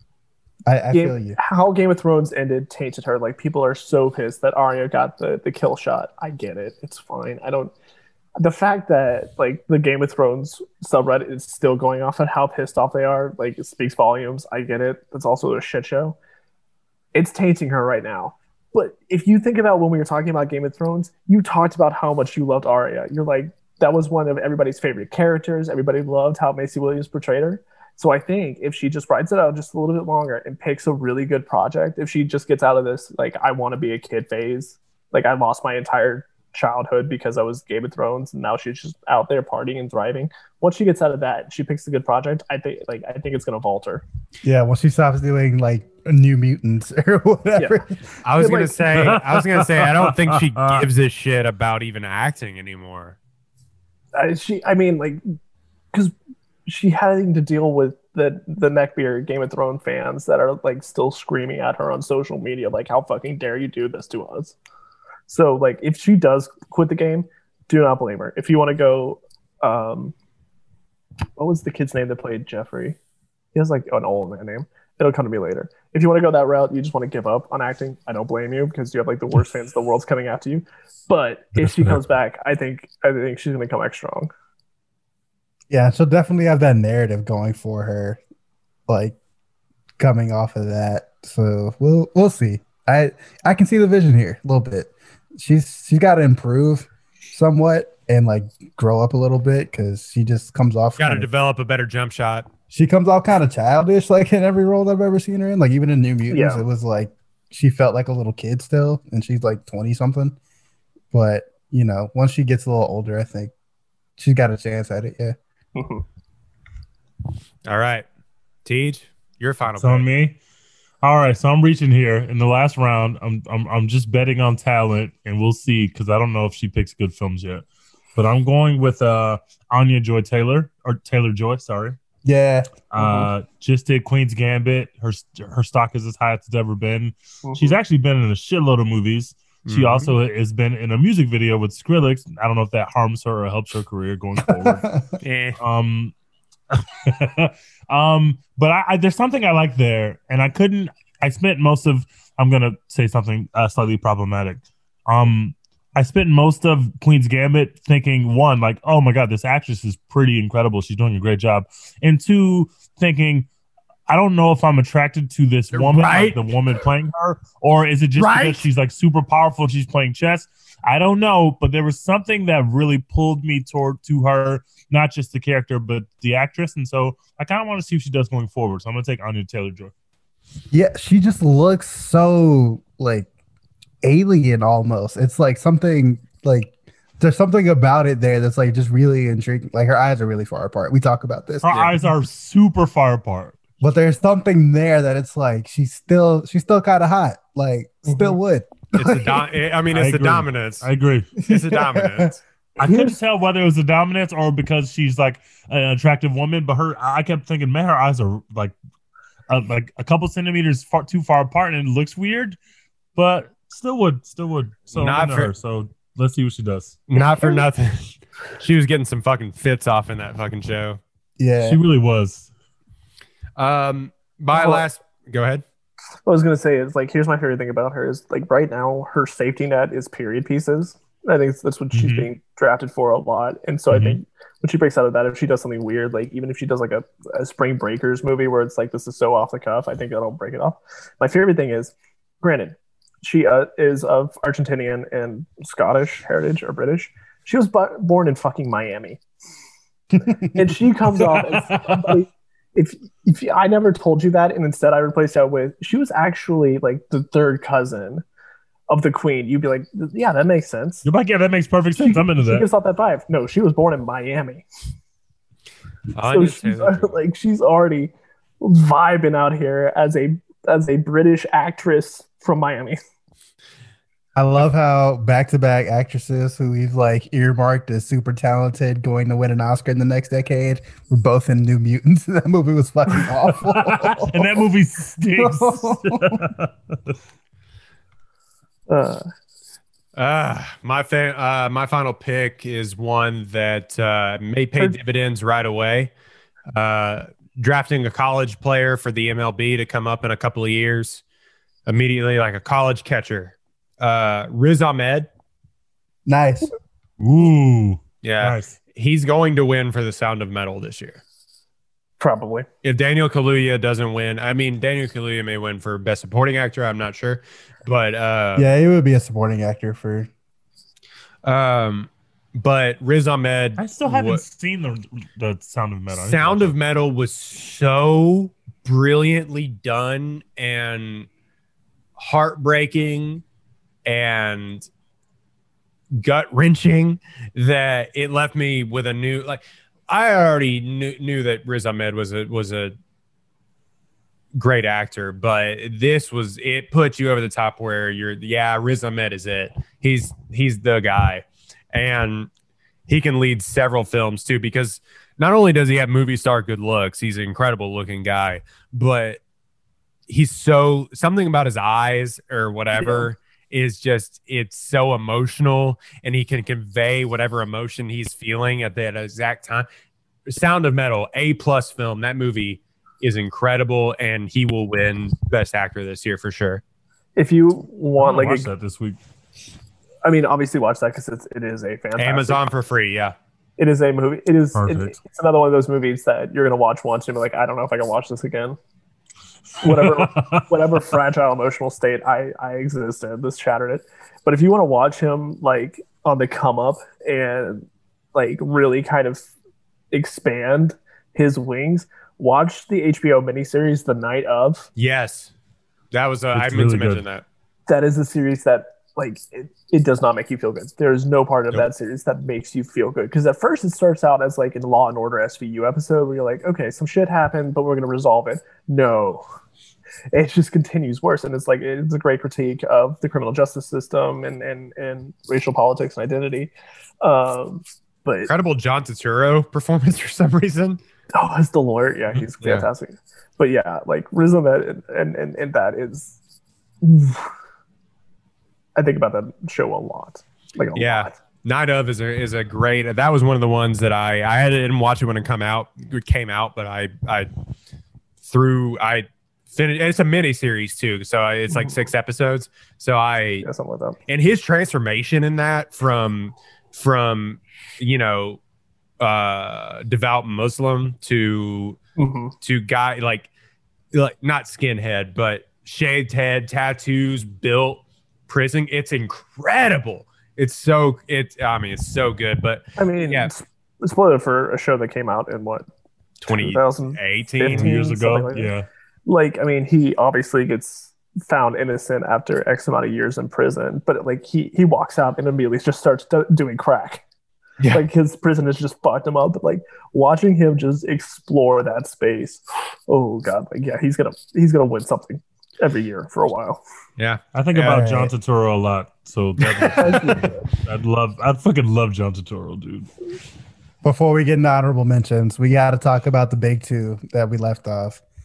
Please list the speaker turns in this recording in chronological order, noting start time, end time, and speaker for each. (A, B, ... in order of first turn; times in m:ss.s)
0:00.6-0:01.4 A
0:00.9-0:07.7 B
0:08.4-0:16.2 B
0:17.1-0:44.0 B
0:44.4-0:48.7 A
0:47.6-0:47.8 B
0:48.2-0:53.2 C
0:48.9-0:50.9 D
0:54.2-0:55.2 B
0:56.6-1:04.6 B
1:05.3-1:10.1 B
1:11.4-1:13.0 B
1:13.5-1:24.3 B
1:21.6-1:22.0 D
1:25.7-1:28.2 A
1:28.9-1:29.2 A
1:30.0-1:41.3 A
1:41.0-1:42.5 C
1:42.7-1:50.4 A
1:46.3-1:46.6 B
1:51.1-1:53.5 A
1:54.2-1:55.4 A
1:55.8-1:56.0 B
1:57.6-1:58.0 C
1:58.6-2:00.0 C
1:59.7-2:00.4 D
2:01.0-2:07.6 D
2:08.2-2:12.0 D
2:12.2-2:12.7 A
2:12.9-2:24.9 D
2:13.0-2:13.3 B
2:17.4-2:17.8 B
2:19.6-2:20.1 C
2:24.4-2:25.1 A
2:25.2-2:25.6 C
2:25.6-2:26.1 D
2:26.7-2:43.5 D
2:44.1-2:59.9 D
2:45.7-2:46.4 C
2:48.2-2:48.7 C
3:00.7-3:03.3 A
3:04.0-3:12.0 A
3:11.6-3:13.6 D
3:13.8-3:19.5 A
3:19.0-3:20.9 C
3:19.9-3:21.3 D
3:21.4-3:23.2 A
3:21.4-3:22.4 C
3:22.8-3:28.7 D
3:29.5-3:32.6 D
3:33.2-3:37.0 D
3:34.9-3:35.5 C
3:37.1-3:41.0 C
3:41.4-3:41.8 A
3:41.6-3:42.5 D
3:43.6-3:45.6 C
3:44.5-3:44.8 B
3:46.3-4:09.2 B
3:51.9-3:52.3 D
3:53.9-3:54.2 D
4:10.1-4:10.7 A
4:10.5-4:18.2 B
4:11.2-4:12.2 D
4:18.9-4:21.0 B
4:21.0-4:22.7 D
4:21.9-4:24.6 B
4:26.1-4:27.1 C
4:26.3-4:33.0 B
4:34.4-4:44.6 A
4:43.4-4:47.1 D
4:45.4-4:46.4 A
4:48.9-4:49.2 B
4:50.2-4:56.1 C
4:56.7-5:01.2 C
5:01.8-5:05.3 C
5:06.2-5:06.7 A
5:07.2-5:08.8 D
5:08.2-5:11.2 C
5:12.2-5:12.7 B
5:12.8-5:18.7 C
5:18.6-5:20.3 A
5:21.4-5:24.4 C
5:23.8-5:26.7 D
5:26.1-5:31.3 C
5:32.2-5:33.4 C
5:34.0-5:34.9 C
5:36.1-5:43.0 C
5:44.5-5:52.5 C
5:53.1-5:59.4 C
6:00.3-6:09.9 C
6:02.9-6:03.3 B
6:10.5-6:16.8 C
6:17.4-6:18.7 B
6:18.2-6:19.2 D
6:20.2-6:22.6 B
6:22.2-6:23.4 C
6:23.8-6:28.8 B
6:24.7-6:25.2 D
6:29.8-6:31.0 D
6:29.8-6:39.5 B
6:40.1-6:44.9 B
6:45.0-6:45.5 C
6:46.1-6:47.4 C
6:46.5-6:47.2 D
6:47.9-6:59.4 B
7:00.3-7:08.5 B
7:08.5-7:11.0 C
7:11.3-7:16.4 B
7:12.6-7:12.8 C
7:17.0-7:17.5 B
7:19.0-7:21.4 B
7:21.0-7:27.5 C
7:28.4-7:33.6 C
7:31.7-7:32.1 B
7:33.6-7:34.2 B
7:34.3-7:38.6 C
7:39.2-7:42.0 C
7:42.2-7:42.5 B
7:42.6-7:43.5 C
7:44.1-7:53.5 C
7:53.0-7:55.8 B
7:56.4-7:57.9 C
7:56.5-7:58.7 B
7:57.6-7:58.9 D
7:59.2-8:07.2 B
8:07.9-8:16.8 B
8:17.2-8:18.1 C
8:17.5-8:23.1 D
8:17.8-8:18.3 A
8:20.0-8:20.4 A
8:20.0-8:20.6 B
8:24.0-8:28.2 A